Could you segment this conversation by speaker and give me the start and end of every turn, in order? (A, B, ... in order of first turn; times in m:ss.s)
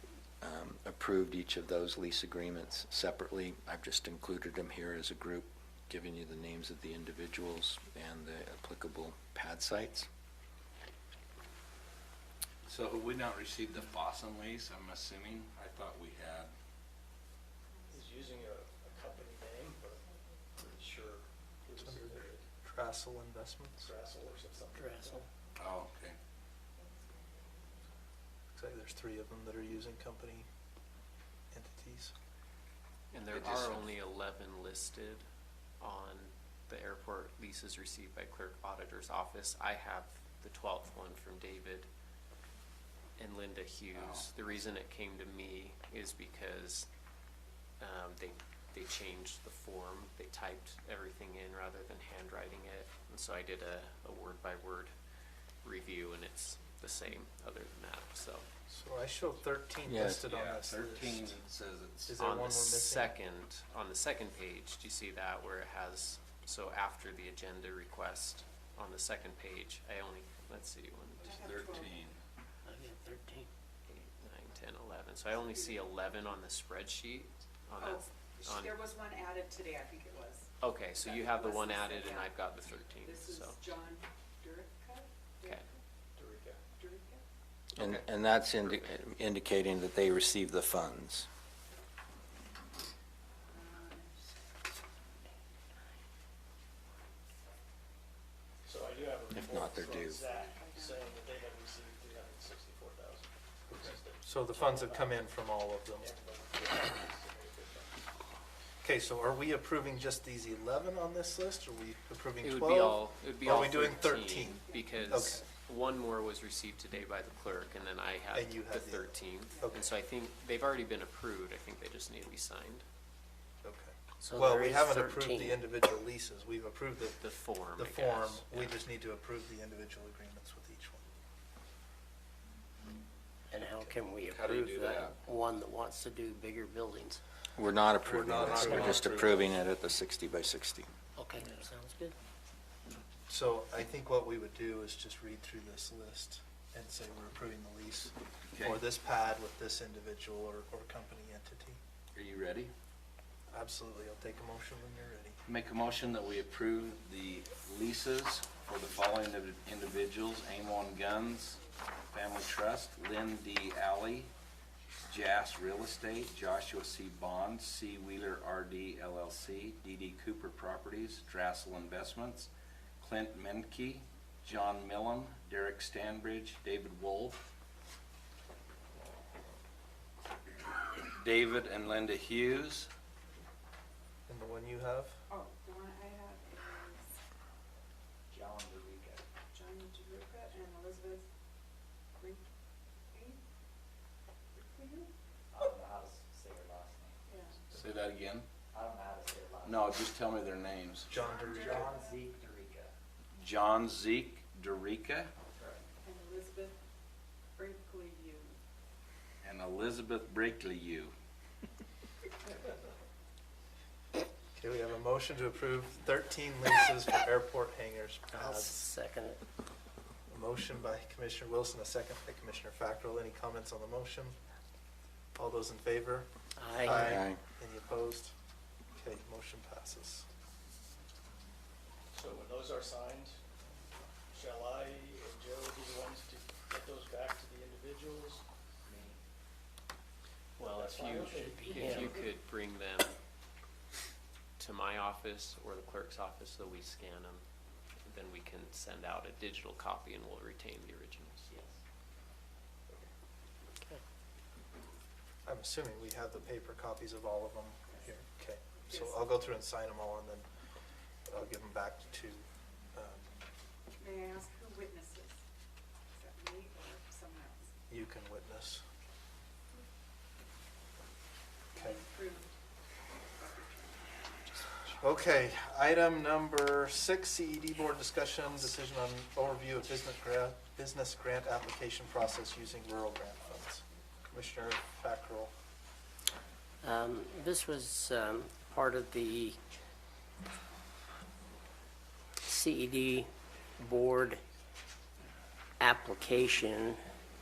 0:00.4-0:10.1 A
0:12.6-0:16.5 B
0:17.9-0:22.4 C
0:21.8-0:23.9 D
0:23.8-0:25.3 C
0:24.7-0:25.2 E
0:25.6-0:26.2 B
0:28.5-0:30.4 D
0:31.5-0:32.1 D
0:33.1-0:35.2 F
0:33.3-0:33.9 B
0:35.8-0:41.9 F
0:43.2-0:46.9 F
0:43.9-0:44.2 B
0:47.8-0:54.9 F
0:55.6-0:58.5 F
0:58.7-1:01.4 D
0:59.9-1:00.2 A
1:00.3-1:02.2 B
1:02.0-1:03.1 D
1:02.2-1:11.6 F
1:11.2-1:11.9 G
1:11.2-1:12.2 B
1:12.6-1:13.5 E
1:13.9-1:18.7 F
1:17.8-1:20.5 G
1:20.6-1:23.6 F
1:21.0-1:22.3 G
1:23.0-1:25.8 G
1:26.2-1:26.6 C
1:26.8-1:27.2 G
1:27.8-1:31.3 A
1:27.8-1:28.1 F
1:28.6-1:29.0 F
1:33.5-1:34.2 G
1:38.6-1:45.2 C
1:39.3-1:40.2 A
1:40.2-1:41.1 G
1:43.7-1:46.1 D
1:46.0-1:48.1 C
1:48.8-1:55.4 D
1:52.4-2:02.8 F
1:54.7-1:55.3 G
1:58.3-1:59.9 D
2:03.6-2:07.2 D
2:04.2-2:05.6 E
2:07.2-2:08.8 F
2:07.8-2:11.0 D
2:13.5-2:17.2 E
2:14.2-2:15.1 B
2:17.6-2:20.9 A
2:18.0-2:19.5 D
2:21.2-2:22.2 E
2:23.3-2:31.8 D
2:28.5-2:28.8 B
2:32.1-2:32.7 B
2:33.5-2:35.4 D
2:35.4-2:44.3 B
2:45.1-2:52.5 B
2:53.0-2:57.4 B
3:01.0-3:02.9 B
3:04.3-3:05.2 D
3:05.3-3:07.1 G
3:08.3-3:09.2 H
3:09.5-3:11.2 G
3:13.1-3:13.4 G
3:14.6-3:15.1 G
3:15.5-3:17.2 H
3:17.3-3:17.5 G
3:17.7-3:18.4 B
3:18.7-3:19.9 H
3:19.6-3:21.1 B
3:21.1-3:22.0 D
3:21.1-3:22.1 G
3:21.7-3:22.9 H
3:23.4-3:25.3 B
3:26.0-3:26.8 G
3:27.6-3:28.6 G
3:29.4-3:31.1 B
3:34.6-3:38.8 D
3:38.3-3:39.4 E
3:40.3-3:44.4 D
3:45.4-3:46.3 D
3:46.6-3:47.1 E
3:46.8-3:48.3 D
3:46.8-3:47.4 A
3:49.0-3:50.3 D
3:52.1-3:53.4 C
3:54.3-3:58.4 C
3:58.9-3:59.2 H
4:00.6-4:03.2 F
4:00.6-4:02.0 C
4:01.5-4:02.2 E
4:04.6-4:07.4 F
4:08.0-4:11.4 F
4:15.4-4:20.5 D
4:18.9-4:19.4 G
4:21.3-4:23.3 D
4:24.0-4:25.4 G
4:26.1-4:27.7 G
4:27.9-4:28.8 D
4:31.7-4:32.0 D
4:31.8-4:32.5 G
4:33.4-4:34.0 G
4:34.9-4:45.5 D
4:46.8-4:49.6 E
4:52.4-4:54.4 E
4:55.8-4:57.0 E